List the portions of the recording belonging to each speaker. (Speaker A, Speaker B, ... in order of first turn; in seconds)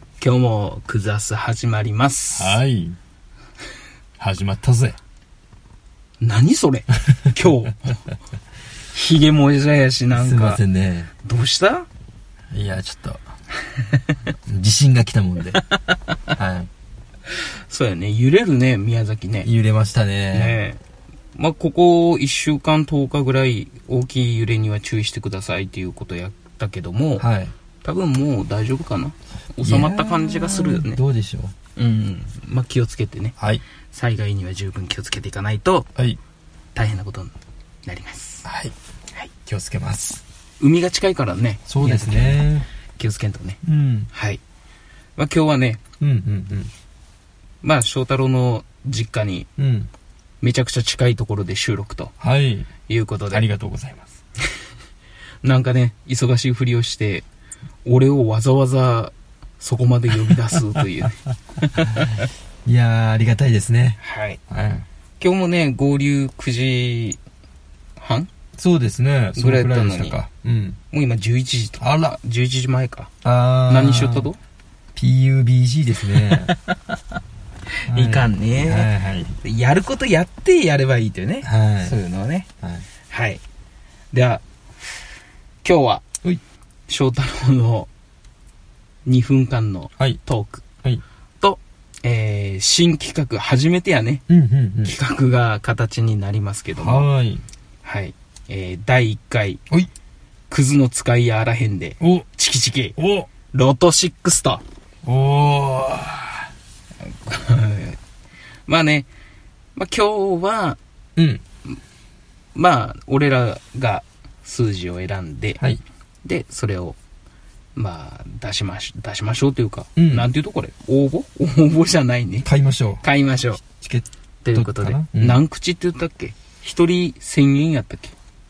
Speaker A: 0.2-2.6, 6.2-8.1, 8.9-10.6, 11.2-11.9, 17.3-19.5, 20.3-20.8, 21.4-27.3, 27.8-31.0, 31.8-33.4, 33.9-35.9, 36.7-38.5, 40.6-43.6, 44.1-44.4, 45.2-45.8, 47.6-49.5, 50.4-52.1, 52.9-53.5, 54.4-54.7, 55.4-57.3, 57.9-62.3, 64.0-64.4, 65.2-67.2, 68.0-68.3, 69.4-70.2, 70.9-73.1, 73.7-74.4, 76.0-76.8, 77.8-82.5, 83.1-83.4, 84.1-85.0, 85.6-86.0, 86.9-87.9, 89.0-90.7, 91.4-94.2, 94.8-97.1, 97.8-99.6, 100.5-103.0, 103.5-104.6, 107.0-108.0, 108.7-109.1, 109.8-110.8, 112.5-115.6, 116.2-117.0, 117.8-122.5, 123.0-123.6, 124.4-128.2
Speaker B: 2.3-3.0, 4.2-5.0, 10.1-11.1, 12.5-13.2, 14.5-15.6, 16.3-16.7, 19.4-20.6, 27.2-27.5, 29.6-31.5, 38.5-38.7, 39.4-40.2, 41.7-42.7, 43.6-44.1, 46.0-46.7, 49.6-49.9, 52.2-52.7, 53.3-54.1, 61.8-64.9, 68.6-70.8, 71.8-72.2, 73.2-74.3, 75.0-76.5, 77.9-79.3, 81.4-82.0, 82.6-82.9, 94.3-95.0, 96.8-97.4, 102.0-102.3, 103.0-103.3, 105.0-106.5, 111.2-111.4, 120.0-120.3, 122.4-123.0, 123.6-125.4